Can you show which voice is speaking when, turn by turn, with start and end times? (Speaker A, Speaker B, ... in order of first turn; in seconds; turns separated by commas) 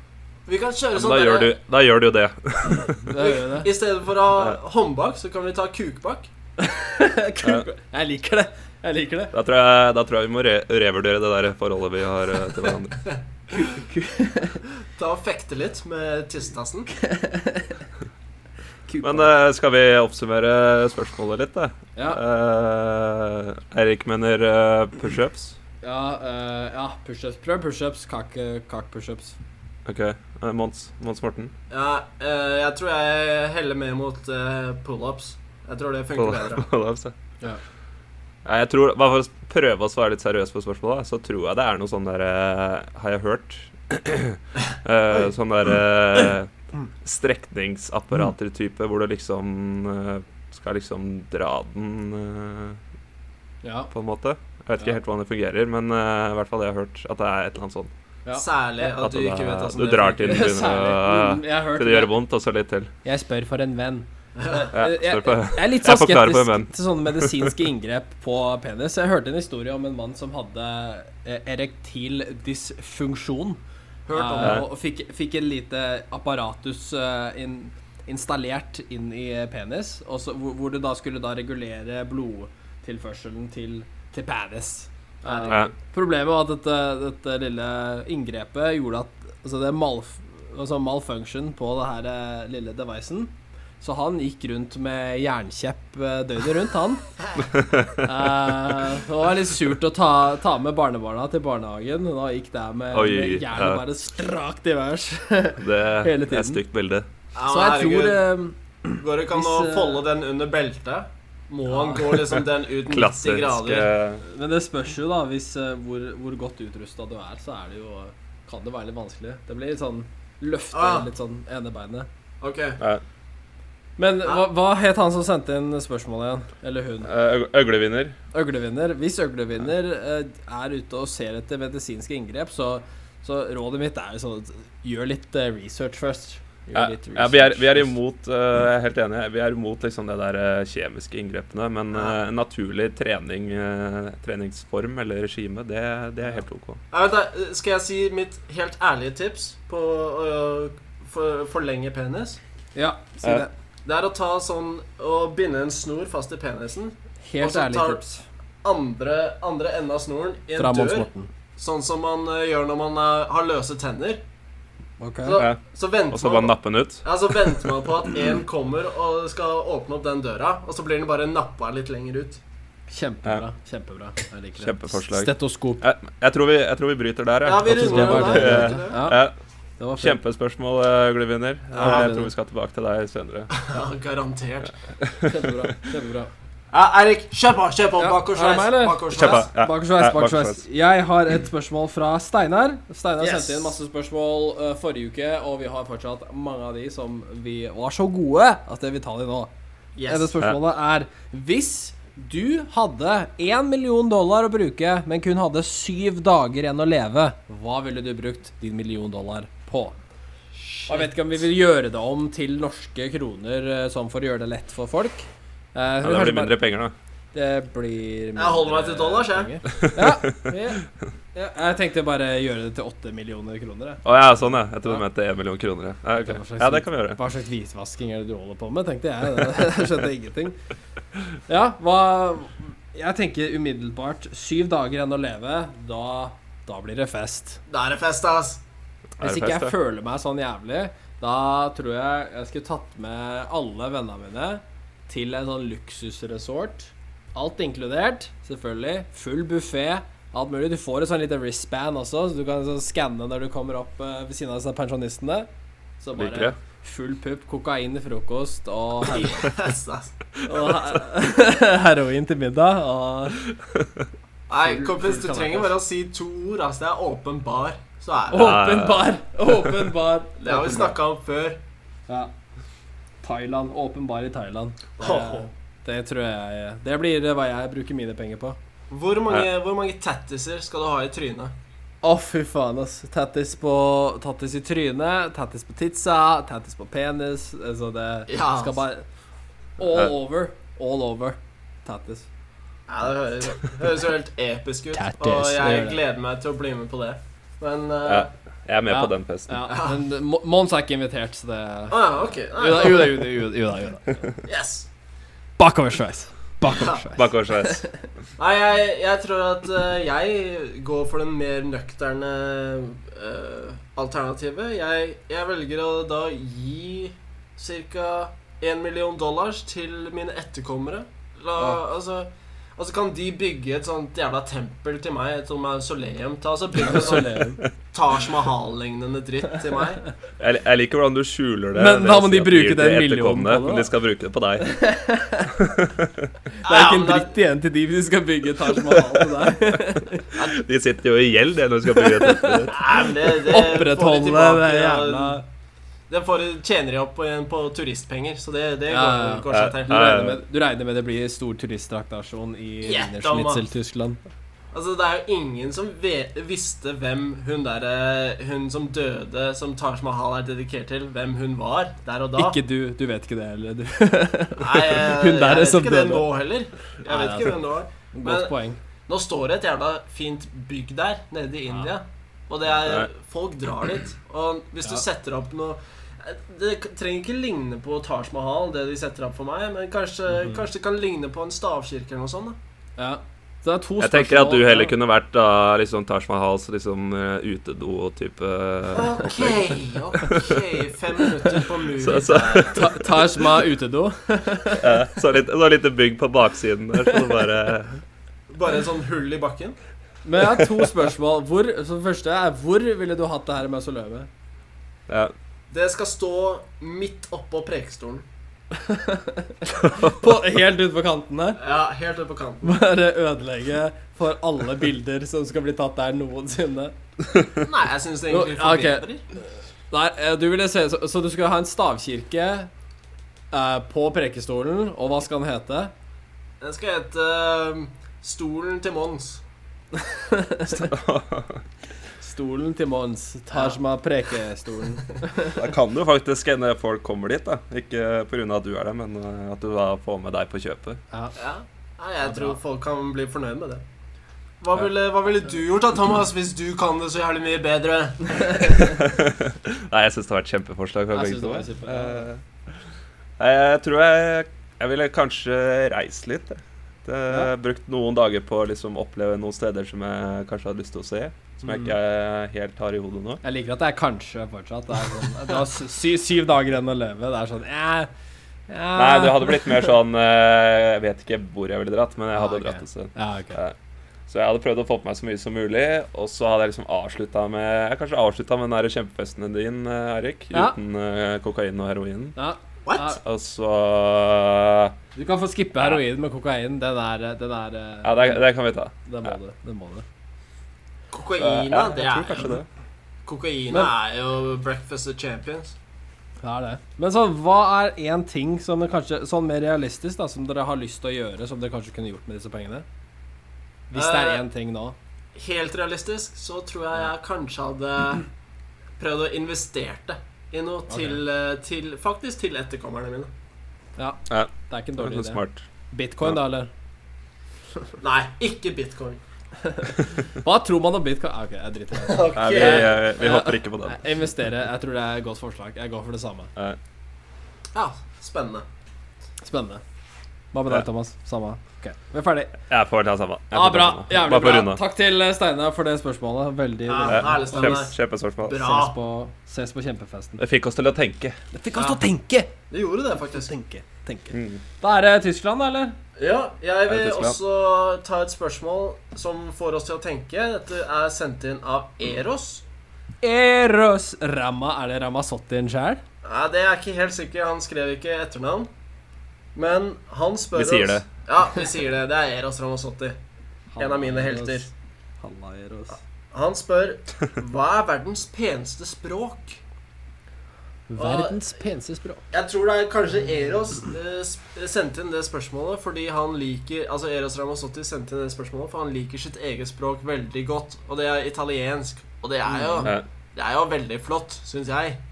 Speaker A: 0.5-1.6, Speaker B: 0.9-3.1, Speaker C: 3.1-3.7, Speaker A: 3.1-6.3, Speaker C: 6.6-9.3, Speaker B: 9.3-13.0, Speaker C: 13.5-14.6, Speaker A: 14.9-16.9, Speaker C: 16.9-17.8, Speaker C: 18.9-19.3, Speaker B: 19.0-25.6, Speaker C: 21.9-22.2, Speaker C: 25.8-29.4, Speaker B: 29.9-31.5, Speaker A: 31.7-36.6, Speaker B: 36.2-37.1, Speaker B: 38.4-52.8, Speaker C: 53.6-53.9, Speaker B: 53.9-57.9, Speaker A: 58.3-60.5, Speaker B: 58.8-62.9, Speaker C: 60.2-62.1, Speaker C: 63.0-73.6, Speaker A: 64.3-64.7, Speaker B: 64.7-67.6, Speaker A: 74.1-74.6, Speaker C: 74.1-97.0, Speaker B: 74.4-74.7, Speaker A: 85.2-85.6, Speaker B: 97.5-98.0, Speaker C: 98.0-106.6, Speaker B: 102.9-103.8, Speaker B: 105.6-107.1, Speaker A: 107.3-108.2, Speaker C: 107.4-110.0, Speaker A: 109.0-113.9, Speaker C: 111.7-112.2, Speaker B: 112.8-114.2, Speaker C: 114.2-122.1, Speaker A: 120.7-121.0, Speaker A: 122.4-122.8, Speaker C: 124.0-127.1, Speaker B: 127.0-128.2, Speaker C: 128.3-137.9, Speaker B: 136.7-146.8, Speaker A: 141.9-142.2, Speaker A: 146.9-152.4, Speaker C: 152.7-153.5, Speaker A: 153.8-158.0, Speaker C: 157.2-158.2, Speaker A: 158.6-164.2, Speaker C: 160.6-161.3, Speaker C: 165.0-165.4, Speaker A: 165.2-172.4, Speaker B: 166.1-167.4, Speaker C: 172.9-175.8, Speaker B: 174.6-179.3, Speaker A: 177.4-179.0, Speaker C: 177.6-179.2, Speaker C: 179.8-180.2, Speaker B: 180.0-183.5, Speaker C: 181.7-182.3, Speaker A: 181.8-182.1, Speaker A: 183.5-184.7, Speaker B: 185.0-185.5, Speaker C: 185.2-186.3, Speaker A: 186.7-189.5, Speaker C: 188.0-199.5, Speaker B: 189.1-190.6, Speaker A: 193.2-193.8, Speaker A: 199.9-200.3, Speaker C: 200.1-210.0, Speaker A: 210.6-211.1, Speaker C: 210.9-216.5, Speaker B: 216.0-216.9, Speaker C: 217.3-224.0, Speaker A: 218.3-219.6, Speaker B: 219.8-220.3, Speaker B: 224.0-227.2, Speaker C: 226.2-230.6, Speaker C: 231.5-237.6, Speaker A: 237.7-238.6, Speaker B: 239.2-239.7, Speaker C: 239.2-255.5, Speaker C: 256.0-259.5, Speaker B: 256.1-256.5, Speaker A: 259.1-260.1, Speaker C: 260.4-263.5, Speaker B: 263.7-264.1, Speaker A: 264.5-268.6, Speaker C: 264.6-265.7, Speaker C: 268.3-270.9, Speaker B: 268.3-269.1, Speaker A: 270.4-271.6, Speaker C: 273.2-278.6, Speaker A: 275.0-275.5, Speaker A: 278.9-281.5, Speaker C: 282.0-289.0, Speaker A: 288.3-288.8, Speaker C: 289.8-292.3, Speaker A: 292.9-298.3, Speaker C: 294.9-296.0, Speaker B: 298.0-299.6, Speaker C: 298.9-304.3, Speaker A: 299.7-300.0, Speaker A: 301.9-303.4, Speaker A: 304.4-304.9, Speaker C: 305.6-308.0, Speaker A: 306.7-307.0, Speaker B: 306.8-307.9, Speaker A: 308.4-327.4, Speaker C: 326.8-327.6, Speaker A: 327.9-330.1, Speaker B: 330.4-334.8, Speaker C: 331.7-333.9, Speaker C: 334.6-335.6, Speaker B: 335.6-336.3, Speaker A: 336.6-337.3, Speaker C: 336.6-340.3, Speaker B: 340.3-342.8, Speaker C: 341.9-345.4, Speaker A: 342.7-345.4, Speaker A: 346.1-350.2, Speaker C: 348.9-354.2, Speaker B: 349.5-350.4, Speaker A: 352.8-353.6, Speaker A: 354.7-362.6, Speaker C: 362.4-366.3, Speaker A: 364.6-368.5, Speaker C: 367.0-367.6, Speaker C: 368.1-368.8, Speaker A: 369.1-382.6, Speaker C: 383.0-384.9, Speaker B: 384.0-390.7, Speaker A: 388.9-393.0, Speaker B: 391.4-393.0, Speaker C: 392.6-395.0, Speaker B: 394.8-398.0, Speaker A: 398.5-399.8, Speaker C: 400.2-404.3, Speaker B: 405.1-405.3, Speaker A: 405.7-408.2, Speaker C: 408.7-411.6, Speaker A: 411.6-412.7, Speaker C: 412.6-416.9, Speaker A: 417.6-419.2, Speaker C: 418.3-419.1, Speaker C: 419.9-422.7, Speaker C: 423.5-425.9, Speaker A: 426.6-429.4, Speaker C: 430.0-430.9, Speaker B: 430.7-431.6, Speaker C: 432.2-435.6, Speaker B: 435.5-441.0, Speaker A: 441.4-443.8, Speaker C: 442.2-442.6, Speaker A: 444.6-448.9, Speaker B: 448.7-452.4, Speaker C: 451.1-452.3, Speaker B: 453.4-463.4, Speaker C: 461.6-461.9, Speaker C: 463.4-468.1, Speaker C: 468.7-469.9, Speaker B: 468.9-473.7, Speaker C: 472.3-473.6, Speaker B: 474.3-482.4, Speaker C: 482.4-483.2, Speaker A: 482.9-483.2, Speaker B: 483.2-484.9, Speaker C: 485.1-488.4, Speaker B: 488.0-489.3, Speaker C: 489.1-490.0, Speaker A: 491.1-492.6, Speaker B: 491.4-492.7, Speaker A: 493.2-495.7, Speaker C: 496.4-502.8, Speaker C: 503.9-504.9, Speaker A: 503.9-504.4, Speaker A: 505.3-508.3, Speaker A: 509.0-513.3, Speaker C: 510.9-511.2, Speaker C: 514.0-515.4, Speaker B: 514.3-515.6, Speaker C: 515.9-516.7, Speaker A: 518.0-519.2, Speaker C: 519.6-526.5, Speaker A: 522.0-523.0, Speaker B: 522.3-524.0, Speaker A: 527.7-528.6, Speaker C: 529.4-529.8, Speaker C: 530.5-532.5, Speaker B: 532.7-534.8, Speaker C: 533.5-537.8, Speaker A: 536.9-538.9, Speaker B: 537.0-538.6, Speaker C: 538.5-540.4, Speaker B: 540.4-541.4, Speaker C: 541.5-542.5, Speaker A: 542.7-543.5, Speaker C: 543.3-546.0, Speaker B: 544.3-544.6, Speaker A: 546.2-552.6, Speaker B: 546.9-547.4, Speaker C: 553.2-556.0, Speaker A: 556.2-558.7, Speaker A: 559.5-563.2, Speaker B: 560.5-561.0, Speaker C: 563.7-564.7, Speaker A: 563.8-564.7, Speaker C: 565.2-566.0, Speaker A: 566.3-569.6, Speaker C: 570.9-572.2, Speaker A: 571.0-571.4, Speaker A: 572.3-585.0, Speaker C: 582.5-582.9